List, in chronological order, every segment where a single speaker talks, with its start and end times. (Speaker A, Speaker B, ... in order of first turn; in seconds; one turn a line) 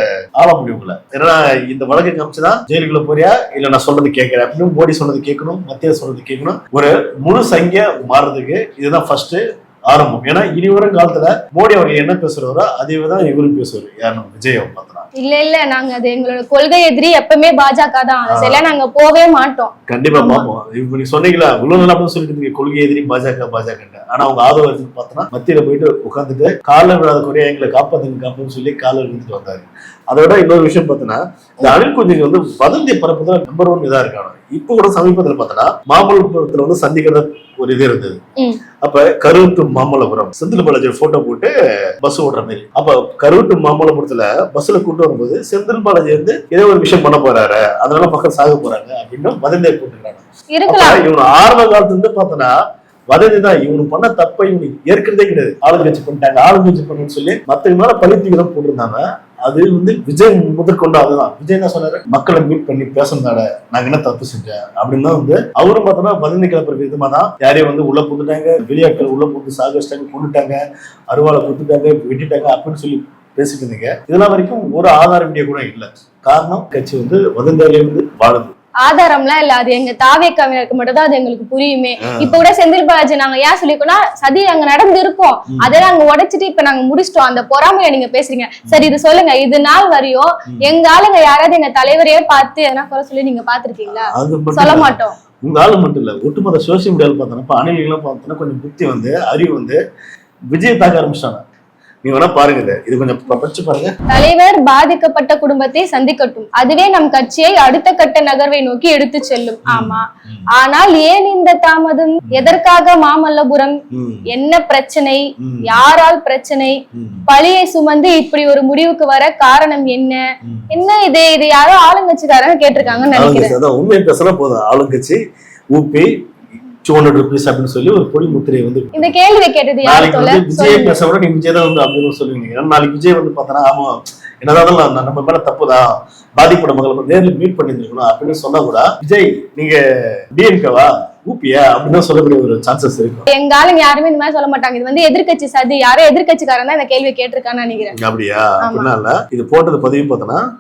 Speaker A: 0.4-15.1
Speaker B: 15.2-20.5
Speaker A: 18.3-18.6
Speaker A: 19.9-38.2
Speaker B: 38.4-38.6
Speaker A: 38.8-52.5
Speaker B: 50.5-51.0
Speaker A: 53.1-78.5
Speaker B: 78.8-95.2
Speaker A: 82.0-82.4
Speaker A: 85.5-85.8
Speaker A: 88.7-88.9
Speaker A: 94.1-99.8
Speaker A: 100.5-101.4
Speaker A: 102.0-103.9
Speaker B: 104.1-123.6
Speaker A: 109.7-110.4
Speaker A: 113.9-114.3
Speaker A: 115.4-115.8
Speaker A: 116.9-117.3
Speaker A: 120.4-120.7
Speaker A: 122.8-125.2
Speaker A: 125.7-126.1
Speaker A: 126.8-129.2
Speaker B: 128.9-131.0
Speaker A: 129.8-139.8
Speaker A: 140.3-143.3
Speaker B: 143.3-148.0
Speaker A: 147.9-150.4
Speaker B: 148.6-148.9